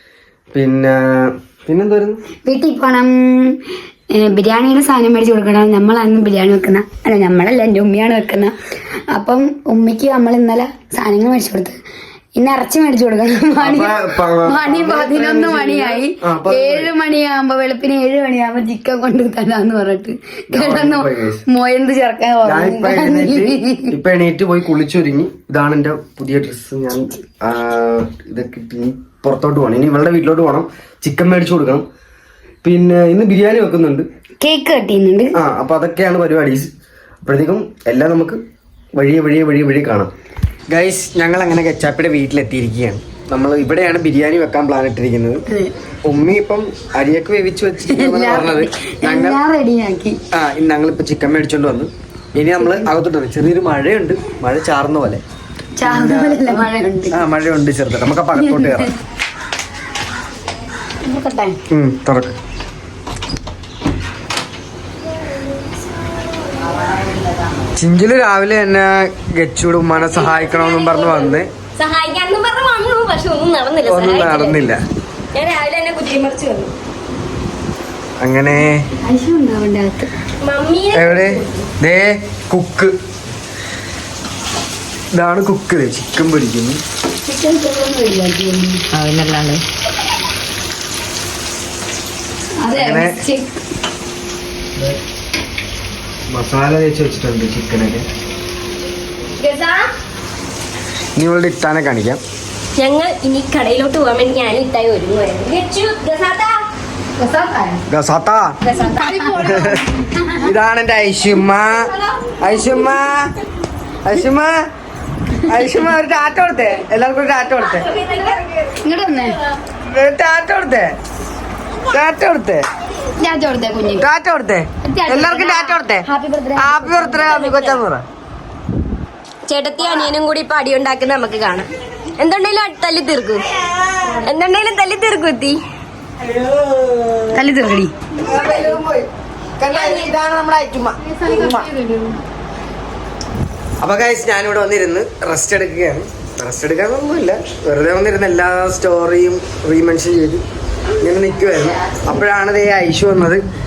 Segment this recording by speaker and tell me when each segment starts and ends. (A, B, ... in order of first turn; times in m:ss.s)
0:00.5-0:02.2 A
0:02.4-0:03.6 B
0:04.1-0:08.5 B
0:09.1-0:11.8 B
0:12.4-0:23.9 B
0:13.6-0:16.9 A
0:20.5-0:21.4 A
0:22.4-0:31.8 A
0:32.6-0:34.1 A
0:34.4-0:35.3 B
0:35.4-0:36.7 A
0:37.2-0:38.4 A
0:39.0-0:40.1 A
0:40.7-0:45.4 A
0:46.0-0:49.4 A
0:47.9-0:50.2 B
0:50.3-0:55.2 A
0:52.6-0:52.9 B
0:55.8-0:57.2 B
0:55.8-0:58.9 A
0:58.4-0:58.8 B
1:01.0-1:01.6 B
1:01.7-1:02.4 A
1:07.8-1:11.5 A
1:09.9-1:14.7 C
1:13.8-1:14.8 A
1:15.3-1:16.7 C
1:18.2-1:18.8 A
1:19.0-1:20.1 B
1:20.4-1:21.6 C
1:20.9-1:22.9 A
1:25.1-1:26.8 A
1:27.2-1:28.8 B
1:32.6-1:33.5 B
1:32.7-1:33.2 A
1:36.3-1:38.0 A
1:39.4-1:39.8 C
1:41.2-1:42.2 A
1:42.8-1:46.6 C
1:47.2-1:47.8 B
1:47.9-1:48.5 A
1:48.6-1:49.5 B
1:49.3-1:49.8 A
1:50.4-1:53.3 A
1:54.0-1:54.5 A
1:55.5-1:57.9 A
1:57.6-1:58.7 C
1:58.8-1:59.3 B
1:59.9-2:01.0 A
2:01.9-2:02.6 A
2:03.2-2:04.0 B
2:04.0-2:06.0 A
2:04.8-2:07.2 B
2:06.6-2:08.0 A
2:07.3-2:07.8 C
2:09.5-2:13.4 C
2:14.1-2:15.6 C
2:16.2-2:17.3 A
2:17.3-2:17.9 B
2:18.2-2:19.1 A
2:18.4-2:18.8 C
2:19.6-2:21.7 A
2:19.7-2:20.1 C
2:23.8-2:30.4 A
2:31.0-2:33.4 A